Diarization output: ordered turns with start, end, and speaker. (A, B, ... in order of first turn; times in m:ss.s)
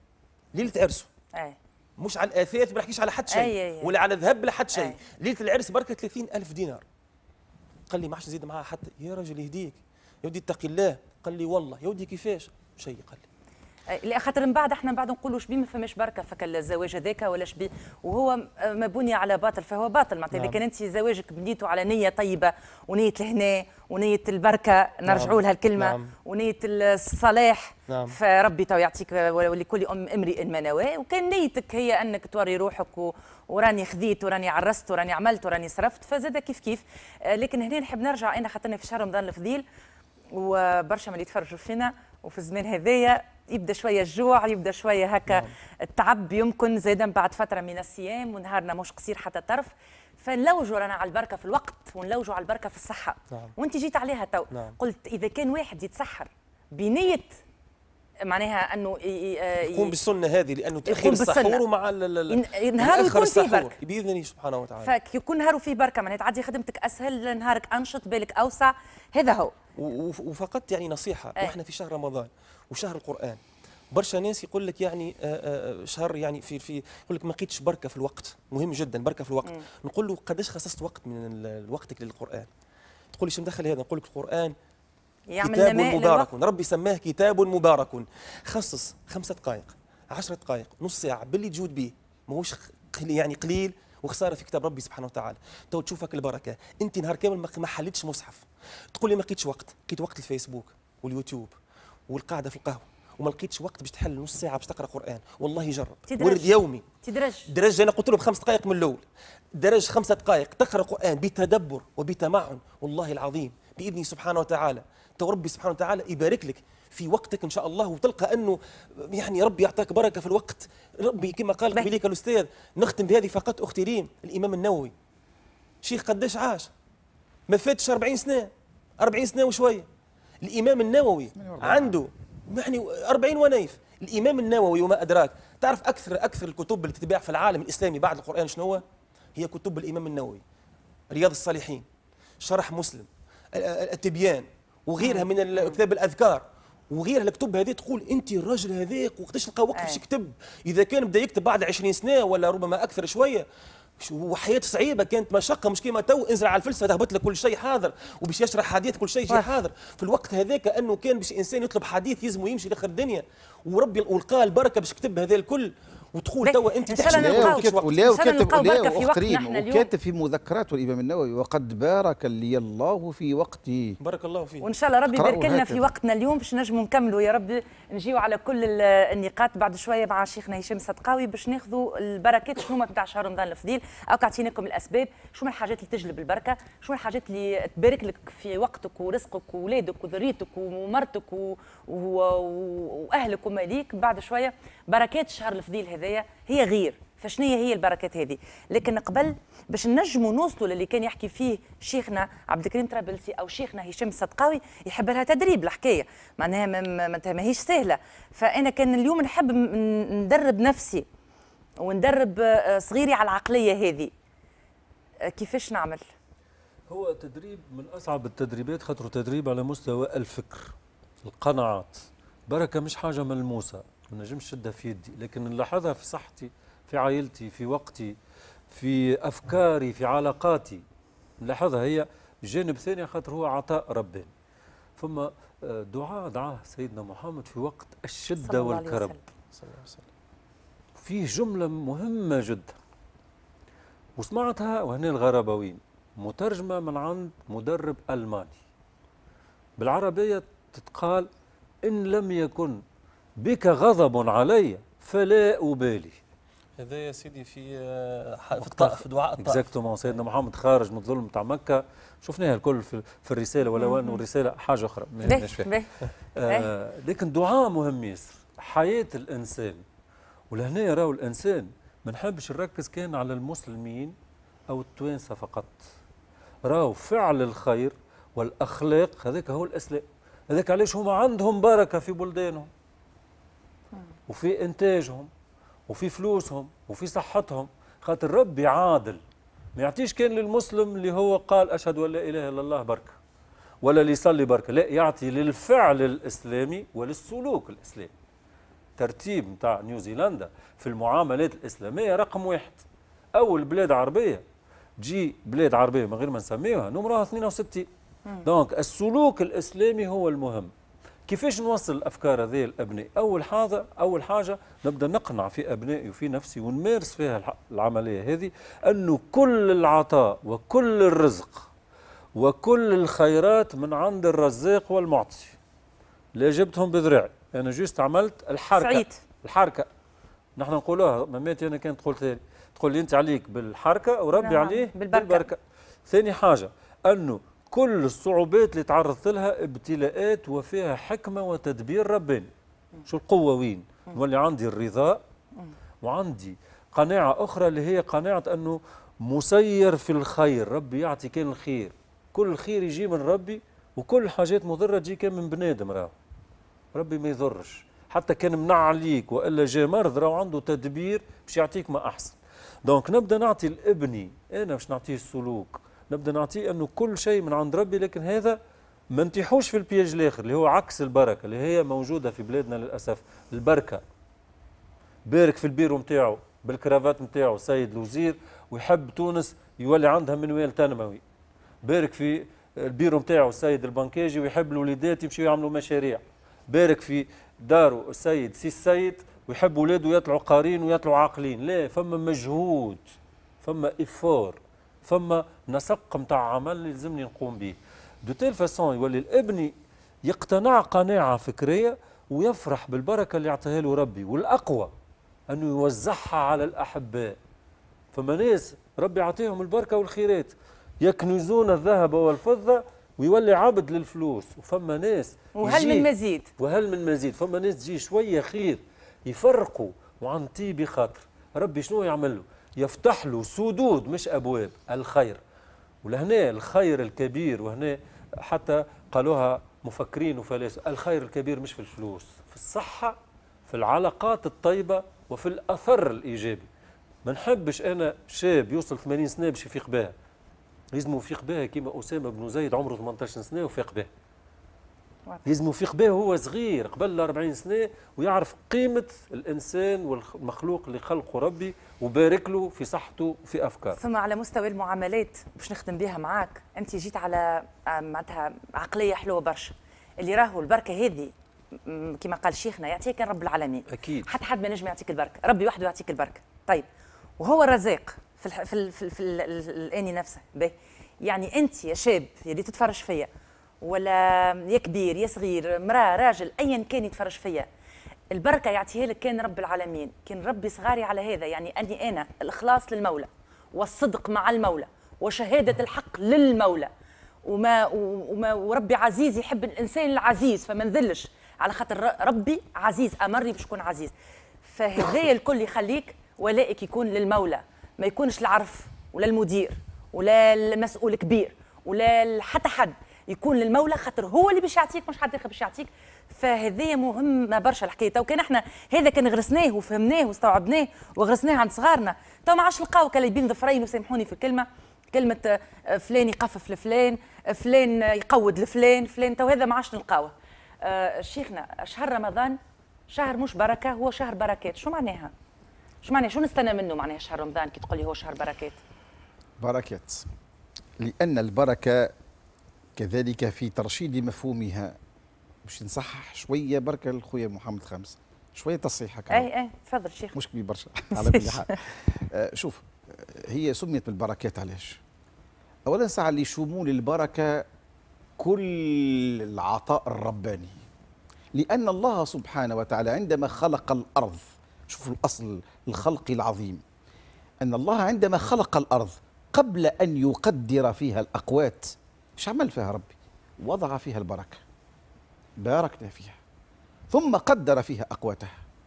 0:00.5-0:01.1 A
0:02.0-0:06.8 A
0:03.3-0:03.9 B
0:07.9-0:13.2 A
0:13.9-0:39.6 B
0:20.3-0:20.6 A
0:25.1-0:26.1 A
0:27.9-0:28.1 A
0:40.3-0:57.3 B
0:58.2-0:59.9 B
0:59.6-1:04.9 A
1:00.9-1:01.6 B
1:02.3-1:03.7 B
1:04.8-1:09.5 B
1:09.8-1:13.4 A
1:13.9-1:22.5 A
1:23.1-1:24.6 A
1:25.3-1:26.3 B
1:25.4-1:41.5 A
1:42.1-1:46.9 A
1:46.1-1:47.5 B
1:47.5-1:49.0 A
1:49.6-2:04.9 A
2:05.8-2:06.7 A
2:07.5-2:09.9 A
2:10.4-2:18.8 A
2:11.3-2:12.0 C
2:19.4-2:20.4 A
2:21.1-2:21.8 A
2:22.4-2:33.4 A
2:25.0-2:25.7 B
2:29.7-2:30.0 B
2:34.0-2:48.0 A
2:46.4-2:49.9 B
2:47.1-2:54.0 C
2:54.0-2:54.7 A
2:54.6-3:31.1 B
2:55.1-2:55.9 C
3:31.8-3:34.1 B
3:35.3-3:36.0 B
3:36.9-3:48.2 D
3:48.7-3:50.8 D
3:51.4-3:54.3 D
3:55.0-3:59.2 D
3:58.4-3:59.2 B
3:59.5-4:00.0 A
4:01.0-4:02.7 D
4:04.2-4:08.6 D
4:09.8-4:11.3 D
4:11.8-4:12.8 D
4:13.4-4:16.2 D
4:16.8-4:19.6 A
4:18.6-4:25.7 D
4:23.8-4:24.2 B
4:25.2-4:25.9 B
4:26.4-4:29.8 D
4:30.5-4:34.1 D
4:34.7-4:35.8 D
4:36.6-4:42.7 D
4:44.3-4:45.3 D
4:45.9-4:49.2 D
4:49.8-4:53.1 D
4:53.8-4:58.1 D
4:59.0-5:02.8 D
5:03.3-5:04.4 D
5:05.0-5:07.9 D
5:08.4-5:10.7 D
5:11.3-5:21.7 D
5:22.4-5:25.6 D
5:26.4-5:29.9 D
5:28.8-5:29.2 B
5:30.6-5:42.5 D
5:34.4-5:35.5 B
5:43.0-5:45.2 D
5:46.0-5:56.1 D
5:56.9-6:08.6 D
6:09.1-6:14.0 D
6:15.2-6:21.2 D
6:21.8-6:33.1 D
6:33.6-6:39.7 D
6:40.2-6:44.9 D
6:45.5-6:47.4 D
6:48.1-7:05.4 D
6:55.6-6:56.5 B
6:55.7-6:55.9 C
7:06.0-7:13.2 D
7:13.7-7:16.7 D
7:17.2-7:20.1 D
7:20.9-7:24.1 D
7:25.4-7:34.0 D
7:33.9-7:41.3 B
7:41.8-7:46.9 B
7:43.9-7:44.3 D
7:47.4-7:53.3 B
7:53.8-7:57.7 B
7:58.3-8:06.9 B
8:07.4-8:14.1 B
8:14.6-8:42.6 B
8:43.1-8:45.3 B
8:46.0-8:48.8 B
8:49.6-8:50.3 C
8:51.0-8:52.1 C
8:53.0-8:55.0 C
8:55.6-8:59.5 C
8:59.3-9:00.4 B
9:00.3-9:05.0 C
9:01.1-9:01.8 B
9:05.9-9:07.6 C
9:08.4-9:10.8 C
9:11.5-9:16.8 C
9:17.6-9:24.6 C
9:25.6-9:26.4 C
9:27.1-9:28.6 C